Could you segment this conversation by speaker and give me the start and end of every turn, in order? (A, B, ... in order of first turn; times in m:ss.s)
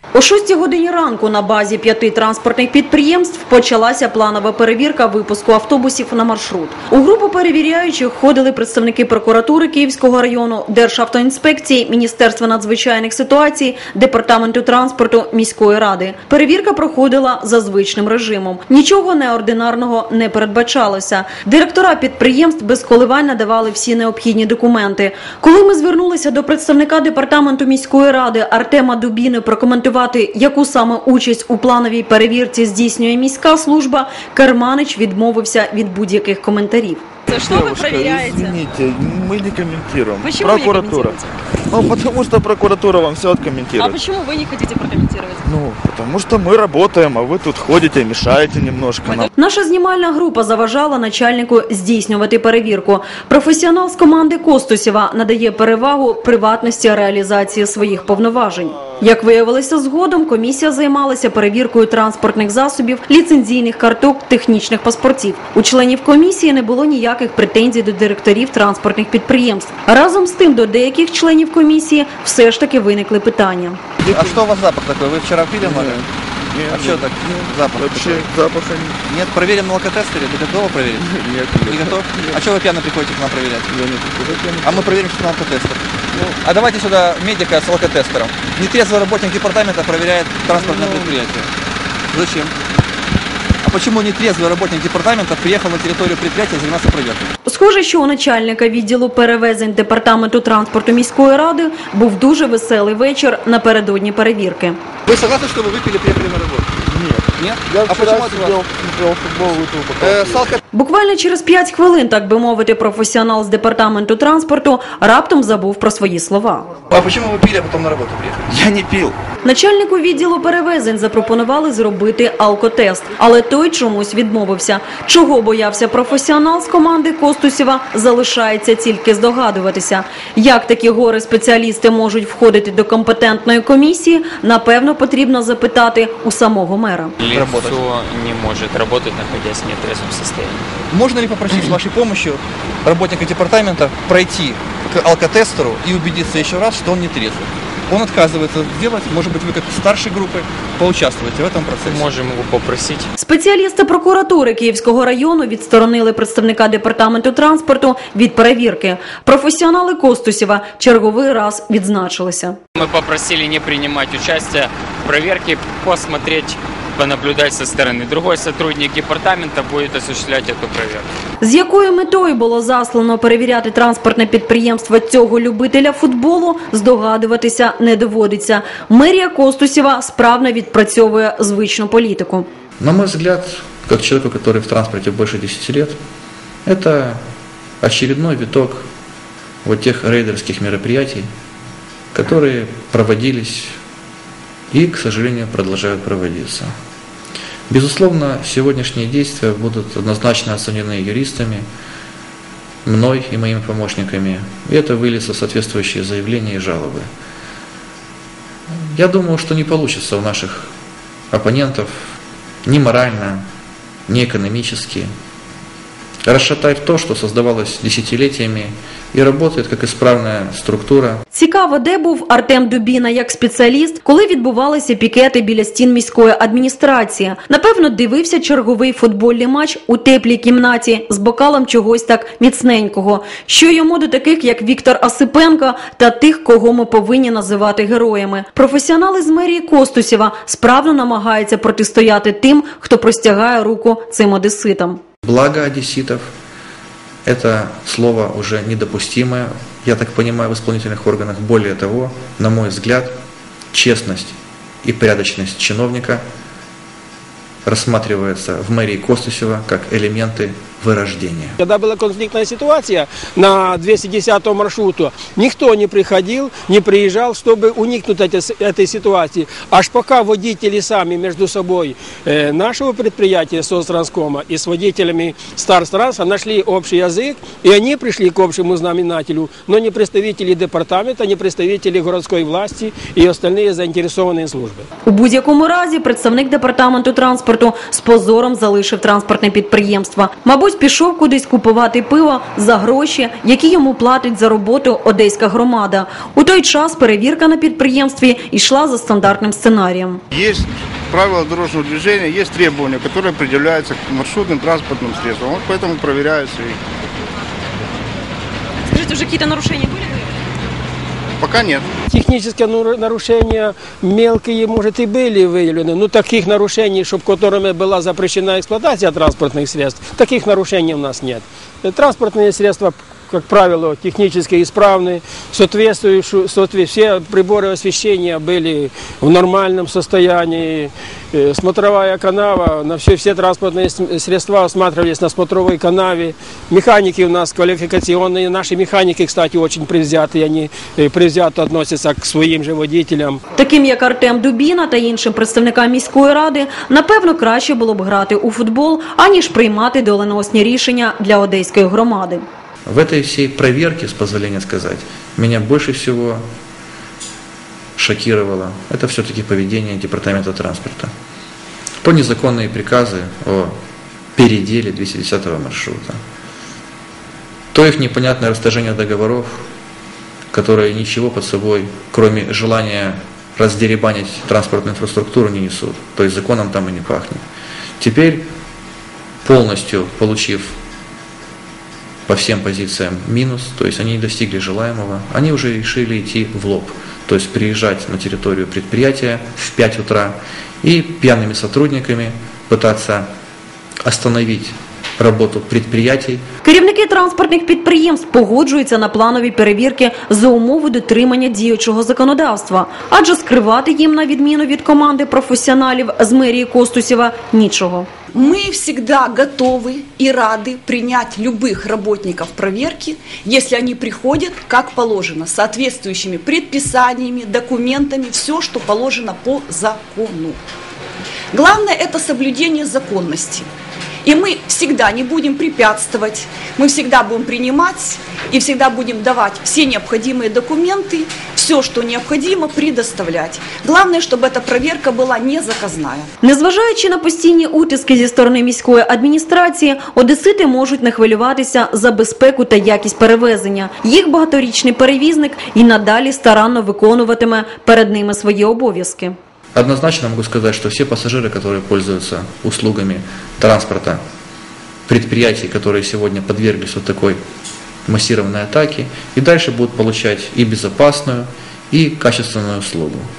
0:00.1-0:37.0 A
0:37.3-0:38.6 B
0:37.3-0:44.0 C
0:40.2-0:41.3 B
0:43.8-0:45.4 B
0:45.4-0:49.3 C
0:49.3-1:13.8 A
1:14.0-1:14.4 C
1:14.1-1:16.0 D
1:15.6-1:19.0 C
1:16.7-1:18.3 D
1:19.1-1:21.1 D
1:21.0-1:22.5 C
1:21.7-1:23.7 D
1:23.7-1:25.1 C
1:24.6-1:31.5 D
1:30.5-1:31.2 C
1:32.1-1:32.5 D
1:33.6-1:37.3 D
1:37.4-1:44.8 A
1:45.1-1:46.7 D
1:46.8-1:50.5 C
1:47.4-1:48.6 D
1:50.0-1:50.6 D
1:50.7-1:56.7 A
1:56.9-1:59.1 D
1:58.5-1:59.1 C
1:59.4-2:17.1 A
2:17.2-2:20.7 E
2:17.3-2:17.8 D
2:20.9-2:32.1 D
2:31.8-2:33.1 E
2:33.2-2:42.6 A
2:42.8-2:51.1 E
2:51.4-3:02.5 A
3:02.8-3:06.0 F
3:06.6-3:07.2 F
3:07.8-3:08.8 F
3:09.6-3:11.3 F
3:12.1-3:13.8 F
3:14.7-3:16.7 F
3:17.7-3:21.6 F
3:22.8-3:27.1 F
3:28.8-3:30.7 F
3:31.3-3:32.0 F
3:32.6-3:33.4 F
3:34.1-3:35.1 F
3:36.2-3:41.2 F
3:41.3-4:05.0 A
4:05.2-4:06.2 F
4:07.2-4:13.1 F
4:13.7-4:16.2 F
4:17.6-4:21.6 F
4:21.6-4:44.9 G
4:45.0-5:00.2 A
5:00.3-5:06.8 H
5:08.9-5:10.3 B
5:11.4-5:11.9 H
5:12.1-5:43.4 G
5:43.5-5:52.4 A
5:52.8-5:56.4 F
5:58.0-6:01.1 F
6:02.0-6:03.7 F
6:04.4-6:06.2 F
6:07.7-6:09.6 F
6:10.5-6:17.4 F
6:18.0-6:18.5 F
6:19.4-6:20.7 F
6:22.3-6:33.3 F
6:34.0-6:36.4 F
6:36.6-6:48.1 A
6:48.4-7:00.6 I
7:01.5-7:03.7 I
7:04.2-7:16.3 I
7:16.4-7:29.4 A
7:29.7-7:34.2 F
7:35.1-7:37.4 F
7:38.0-7:43.3 F